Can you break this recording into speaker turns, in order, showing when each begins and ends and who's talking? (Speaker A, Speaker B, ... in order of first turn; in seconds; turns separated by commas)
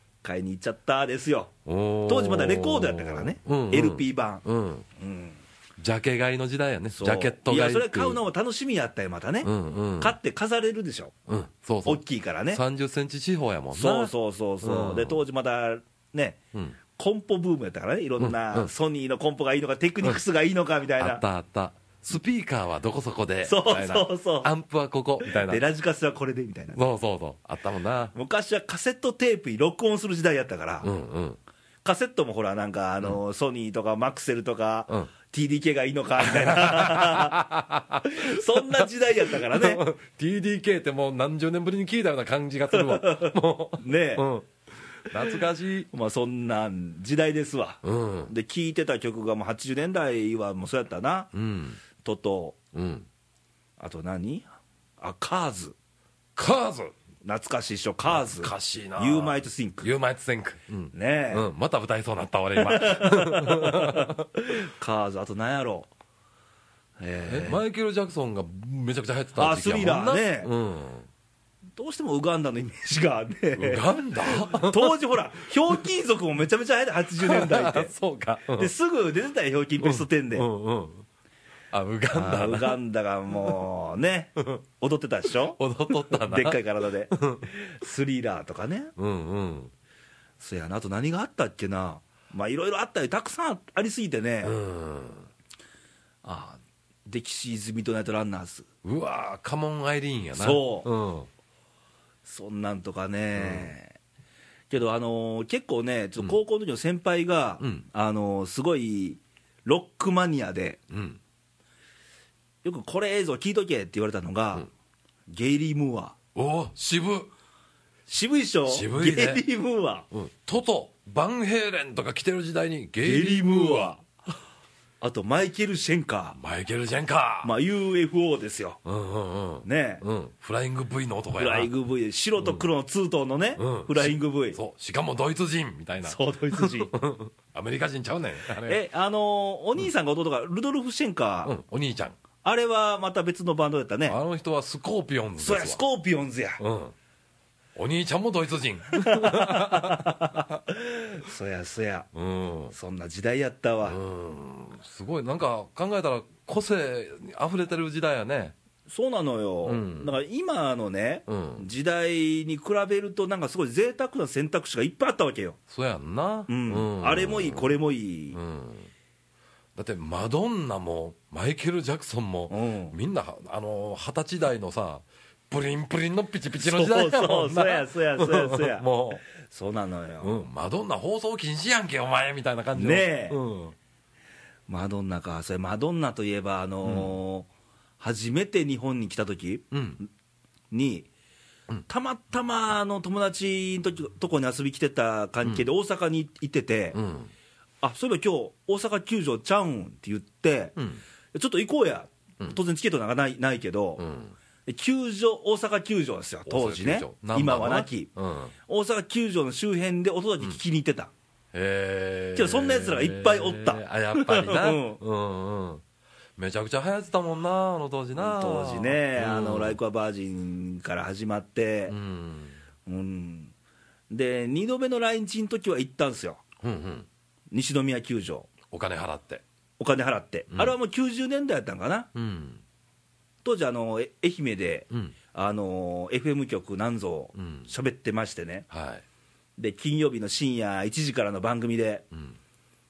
Speaker A: 0.2-1.5, Speaker B: 1.7-4.9, Speaker A: 2.1-4.4, Speaker A: 5.0-5.4, Speaker B: 5.8-8.2, Speaker A: 6.9-11.1, Speaker B: 9.4-10.2, Speaker B: 11.3-15.2, Speaker A: 11.8-12.6, Speaker A: 13.7-16.4, Speaker A: 17.0-21.2, Speaker B: 18.2-18.7, Speaker B: 21.0-25.6, Speaker A: 23.4-24.5, Speaker A: 25.2-26.8, Speaker B: 26.7-28.1, Speaker A: 28.1-30.9, Speaker B: 30.8-31.4, Speaker A: 31.8-37.4, Speaker B: 36.2-44.5, Speaker A: 38.0-39.9, Speaker A: 42.7-44.3, Speaker B: 45.1-45.9, Speaker A: 45.9-51.3, Speaker B: 47.8-48.3, Speaker B: 51.3-51.8, Speaker A: 52.0-52.6, Speaker B: 52.7-53.1, Speaker A: 53.8-54.5, Speaker A: 55.0-55.8, Speaker B: 56.4-56.9, Speaker A: 57.2-59.9, Speaker B: 58.1-64.2, Speaker A: 60.9-61.5, Speaker A: 62.6-65.9, Speaker A: 67.0-67.6, Speaker B: 67.2-71.1, Speaker A: 69.4-70.5, Speaker A: 71.8-77.9, Speaker B: 73.5-75.0, Speaker B: 77.2-78.7, Speaker A: 78.6-80.5, Speaker B: 79.8-81.1, Speaker B: 81.7-82.8, Speaker A: 82.1-88.9, Speaker B: 85.3-86.6, Speaker B: 87.1-87.5, Speaker B: 89.0-89.7, Speaker A: 90.4-94.6, Speaker B: 94.4-95.3, Speaker A: 96.2-98.7, Speaker B: 98.8-101.3, Speaker A: 100.3-100.9, Speaker A: 102.2-104.0, Speaker B: 103.4-103.7, Speaker A: 104.7-110.8, Speaker B: 107.6-107.9, Speaker B: 110.9-111.2, Speaker A: 112.6-114.7, Speaker A: 115.3-116.2, Speaker B: 116.3-117.3, Speaker A: 118.1-120.1, Speaker B: 118.7-119.5, Speaker B: 120.1-124.0, Speaker A: 123.0-124.0, Speaker A: 125.0-126.4, Speaker B: 126.3-127.5, Speaker A: 127.4-128.8, Speaker B: 128.8-131.7, Speaker A: 129.6-130.0, Speaker A: 131.4-134.6, Speaker B: 132.4-132.7, Speaker B: 133.6-138.8, Speaker A: 136.0-136.9, Speaker A: 138.6-141.6, Speaker B: 141.4-142.2, Speaker A: 142.4-144.2, Speaker B: 144.1-145.8, Speaker A: 145.4-146.6, Speaker B: 146.6-146.9, Speaker B: 147.8-150.4, Speaker A: 148.9-152.1, Speaker B: 152.1-152.8, Speaker A: 152.7-154.0, Speaker B: 153.8-158.6, Speaker A: 158.9-165.6, Speaker B: 159.7-160.1, Speaker B: 161.3-161.7, Speaker B: 165.7-167.7, Speaker A: 166.5-168.4, Speaker B: 168.3-168.9, Speaker B: 169.8-179.2, Speaker A: 172.5-173.0, Speaker A: 176.6-180.4, Speaker B: 180.2-183.8, Speaker A: 182.8-183.4, Speaker A: 184.7-187.5, Speaker B: 186.8-187.2, Speaker A: 188.0-189.7, Speaker B: 189.7-190.0, Speaker A: 190.7-191.1, Speaker A: 191.9-197.0, Speaker B: 196.9-197.3, Speaker A: 197.8-200.8, Speaker B: 200.8-201.0, Speaker A: 201.3-204.0, Speaker B: 204.0-204.3, Speaker A: 204.7-208.1, Speaker B: 206.5-208.5, Speaker A: 208.7-211.1, Speaker B: 211.5-215.8, Speaker A: 212.3-215.0, Speaker B: 216.4-219.8, Speaker A: 218.2-222.0, Speaker B: 221.9-222.6, Speaker A: 222.9-223.5, Speaker A: 224.1-226.4, Speaker B: 226.6-227.1, Speaker A: 227.5-228.5, Speaker B: 228.7-229.4, Speaker A: 229.8-232.1, Speaker B: 232.2-232.6, Speaker A: 233.4-238.7, Speaker B: 234.9-235.2, Speaker B: 237.4-237.7, Speaker B: 238.7-239.0, Speaker A: 239.6-242.1